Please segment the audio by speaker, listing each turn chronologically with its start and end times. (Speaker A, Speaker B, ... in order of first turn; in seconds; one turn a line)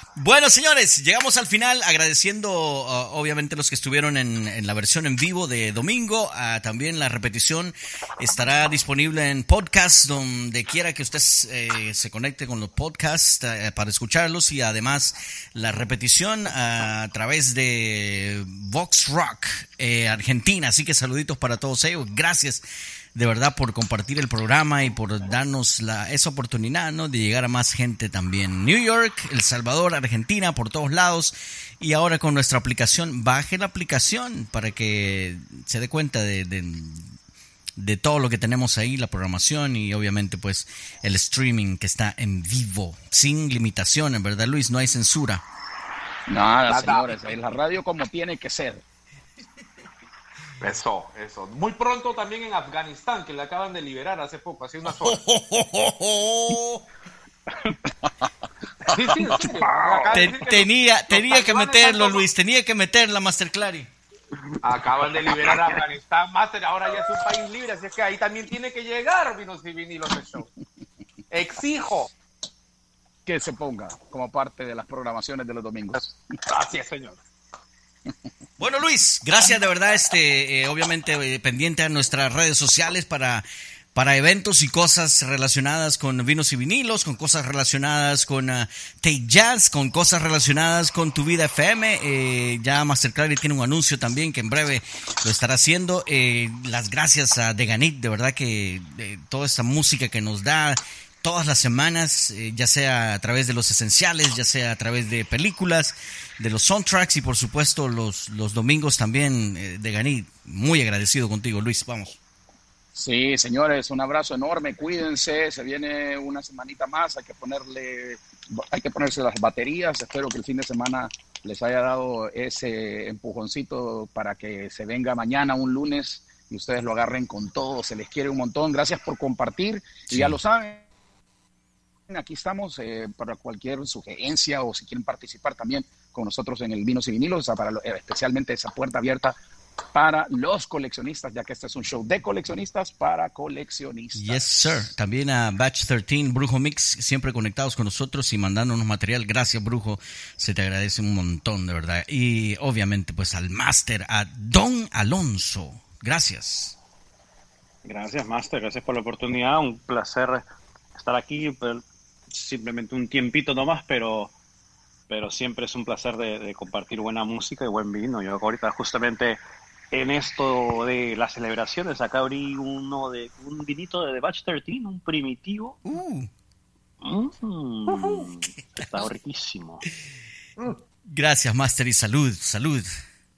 Speaker A: 0.2-37.1
Speaker A: 37.8-45.4
Speaker B: 46.3-48.8
Speaker C: 46.7-47.2
Speaker C: 50.6-55.2
Speaker A: 55.0-56.8
Speaker C: 58.9-62.2
Speaker A: 60.1-63.9
Speaker C: 64.6-70.5
Speaker C: 71.3-72.1
Speaker B: 73.2-76.1
Speaker C: 75.9-77.2
Speaker A: 78.6-112.2
Speaker B: 112.9-130.8
Speaker A: 130.1-130.3
Speaker B: 132.1-139.3
Speaker B: 139.9-144.9
Speaker A: 144.1-156.8
Speaker D: 157.8-160.4
Speaker D: 160.9-164.3
Speaker D: 165.1-169.4
Speaker D: 169.9-175.8
Speaker A: 175.8-176.3
Speaker D: 177.0-179.8
Speaker A: 181.1-182.9